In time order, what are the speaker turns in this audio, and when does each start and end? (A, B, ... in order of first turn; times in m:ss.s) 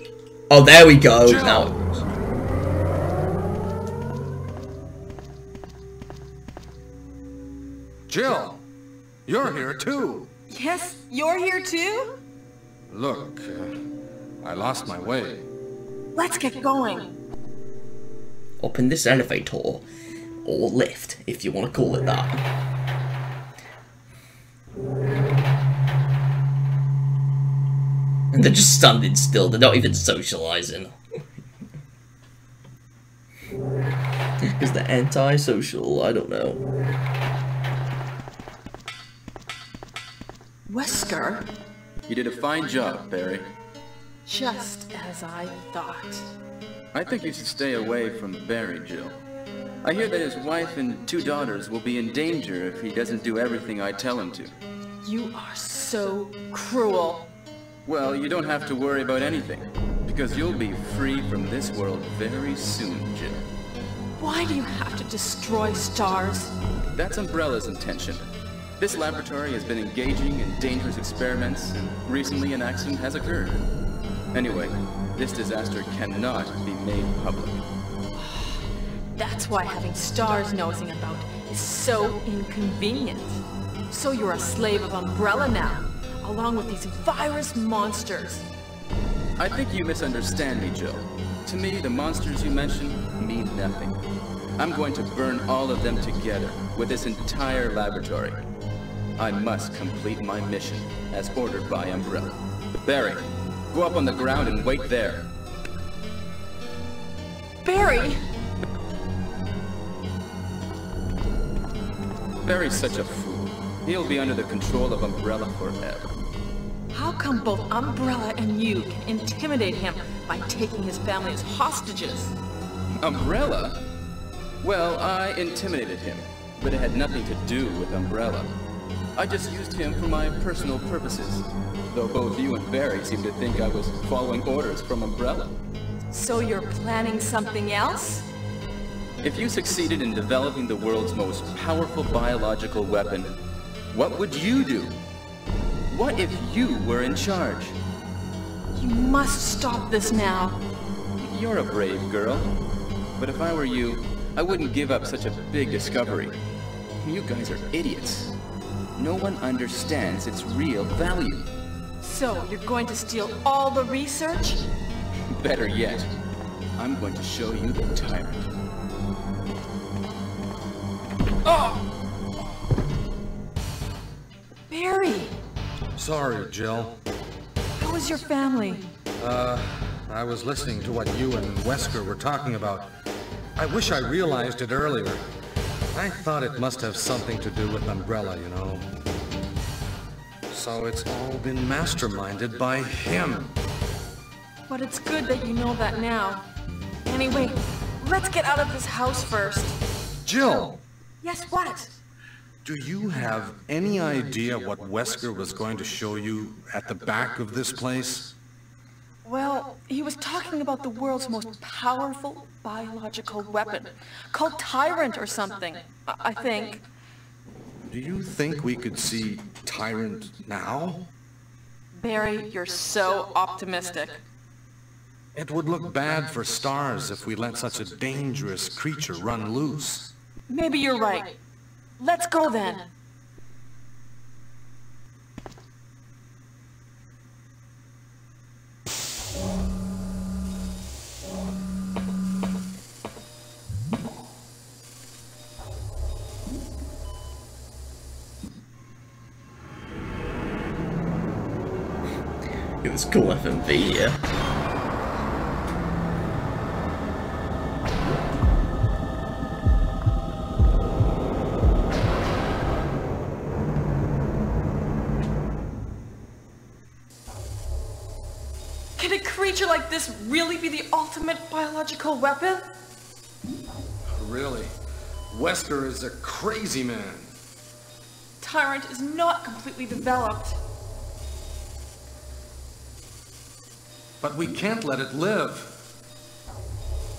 0:00.5-0:02.0 A
0:01.2-0:01.7 B
0:08.1-0:08.6 B
0:09.2-0:10.3 B
0:10.5-0:12.2 C
0:12.9-0:13.7 B
0:14.4-0:15.4 B
0:16.1-0:17.1 C
0:18.6-0:19.8 A
0:20.4-0:22.4 A
0:28.3-0:31.0 A
0:34.5-0:36.6 A
0:40.7-0:41.5 C
0:42.0-0:43.5 D
0:44.2-0:46.2 C
0:46.9-0:49.2 D
0:49.8-0:54.5 D
0:55.0-0:57.3 C
0:57.8-1:03.5 D
1:04.2-1:06.6 C
1:06.9-1:08.2 D
1:08.8-1:13.6 D
1:14.3-1:17.6 D
1:18.2-1:18.6 C
1:19.2-1:28.5 C
1:29.4-1:34.0 D
1:34.6-1:38.4 D
1:39.2-1:45.3 D
1:47.6-1:48.2 C
1:52.4-1:56.1 D
1:56.9-2:02.3 C
2:03.0-2:03.8 D
2:04.6-2:08.6 D
2:09.2-2:15.6 D
2:16.1-2:18.3 C
2:19.2-2:23.4 D
2:23.9-2:25.0 D
2:25.9-2:27.8 D
2:28.7-2:30.6 C
2:31.2-2:32.5 D
2:33.2-2:36.4 D
2:37.0-2:38.3 D
2:39.0-2:41.5 D
2:42.0-2:44.6 C
2:45.3-2:46.1 D
2:46.8-2:48.6 D
2:51.4-2:51.8 B
2:54.7-2:55.4 C
2:56.0-2:57.0 B
2:57.8-2:58.9 C
2:59.2-3:02.9 B
3:03.6-3:05.2 B
3:05.9-3:08.9 B
3:10.5-3:13.6 B
3:14.7-3:16.4 C
3:17.0-3:19.7 C
3:20.2-3:20.8 B
3:21.2-3:21.9 C
3:22.6-3:28.3 B
3:29.2-3:36.8 C
3:37.8-3:41.1 B
3:42.0-3:44.2 C
3:45.3-3:50.1 B
3:50.5-3:51.4 C
3:52.0-3:52.9 C
4:12.8-4:14.2 A
4:29.0-4:32.7 C
4:34.1-4:34.7 B
4:35.3-4:37.3 B
4:38.4-4:40.6 C
4:44.2-4:45.8 B